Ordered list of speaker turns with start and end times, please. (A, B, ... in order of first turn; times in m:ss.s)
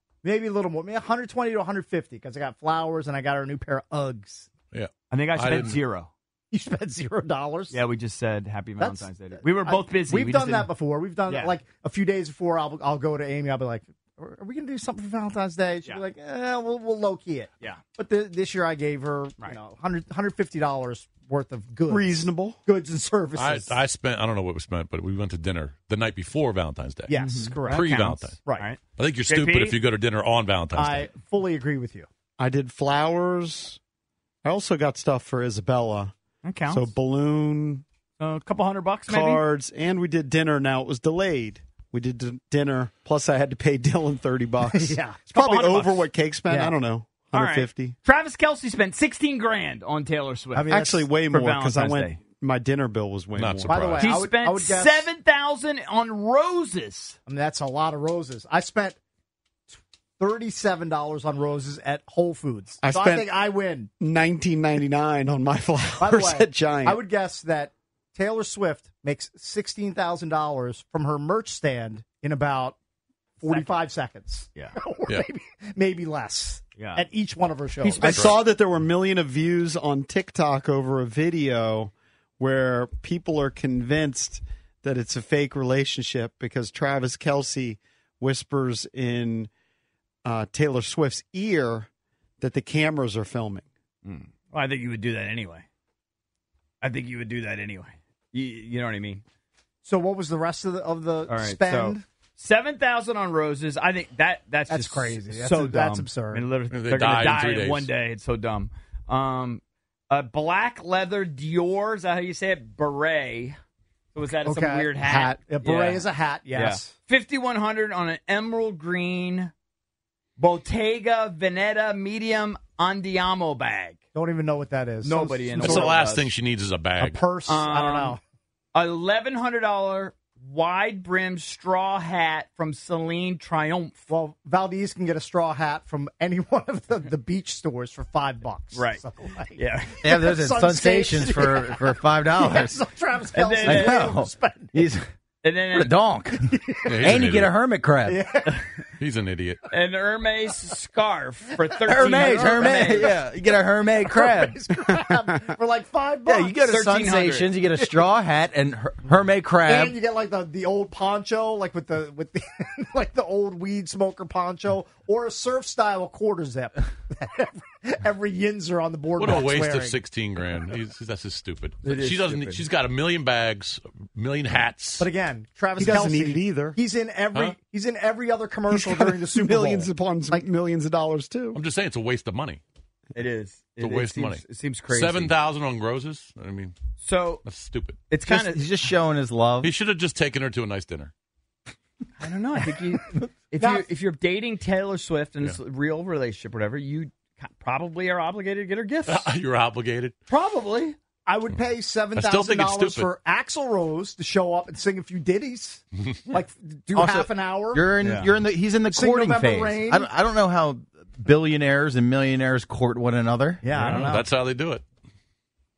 0:00.2-0:04.5 A
0:04.7-0:05.8 B
0:05.1-0:06.1 C
0:06.5-0:07.8 A
0:07.7-0:10.7 C
0:08.8-0:23.8 A
0:11.3-0:11.6 C
0:21.9-0:22.6 D
0:23.4-0:28.4 B
0:27.1-0:28.6 A
0:27.1-0:29.8 C
0:29.0-0:31.1 B
0:30.8-0:32.1 A
0:32.4-0:33.8 D
0:34.4-0:36.1 D
0:36.4-0:36.9 C
0:36.7-0:37.8 D
0:38.2-0:39.4 C
0:39.1-0:48.0 D
0:44.7-0:45.3 A
0:45.3-0:46.1 C
0:46.5-0:46.8 A
0:47.3-0:52.2 C
0:50.5-0:51.1 A
0:50.7-0:54.0 D
0:53.4-0:54.2 B
0:53.7-0:55.1 A
0:54.0-0:57.2 C
0:57.2-0:59.0 A
1:00.2-1:03.9 A
1:02.8-1:03.3 D
1:04.0-1:07.0 D
1:06.0-1:12.8 A
1:13.4-1:18.3 A
1:13.4-1:13.7 C
1:16.8-1:17.1 C
1:17.8-1:18.4 C
1:18.0-1:29.5 D
1:18.0-1:18.3 B
1:30.2-1:31.9 D
1:32.4-1:33.7 D
1:34.0-1:35.6 C
1:36.8-1:39.2 C
1:39.8-1:42.0 A
1:41.3-1:53.6 C
1:44.7-1:46.5 A
1:46.7-1:47.9 B
1:54.1-1:59.5 C
1:54.4-1:56.9 A
2:00.4-2:04.0 C
2:04.1-2:06.0 A
2:05.0-2:06.3 C
2:05.6-2:07.2 B
2:07.0-2:08.2 A
2:07.5-2:08.2 C
2:08.8-2:14.0 C
2:14.1-2:24.8 A
2:18.7-2:19.0 C
2:19.6-2:20.0 C
2:20.0-2:22.8 E
2:23.3-2:24.2 C
2:23.6-2:25.0 E
2:25.4-2:25.9 C
2:25.7-2:28.2 E
2:26.5-2:27.2 A
2:26.9-2:27.5 B
2:28.0-2:28.6 A
2:29.0-2:29.6 B
2:29.7-2:33.1 C
2:31.6-2:33.2 A
2:31.8-2:34.6 E
2:34.0-2:36.6 A
2:36.2-2:40.0 E
2:36.6-2:37.5 C
2:39.6-2:50.0 A
2:49.2-2:55.1 B
2:51.8-2:52.6 C
2:55.0-3:00.5 A
2:55.8-2:56.8 D
2:58.7-3:01.6 D
3:01.5-3:02.6 B
3:03.1-3:05.3 C
3:03.8-3:06.8 B
3:07.0-3:07.4 C
3:07.4-3:08.0 B
3:08.1-3:08.6 C
3:08.2-3:09.7 E
3:09.6-3:11.1 B
3:12.2-3:19.2 C
3:13.6-3:13.8 A
3:19.1-3:20.1 B
3:20.3-3:21.0 C
3:21.2-3:27.9 A
3:22.2-3:23.1 B
3:26.9-3:33.6 E
3:28.0-3:28.3 C
3:28.9-3:30.1 A
3:33.6-3:34.2 A
3:33.8-3:34.1 C
3:33.8-3:34.8 B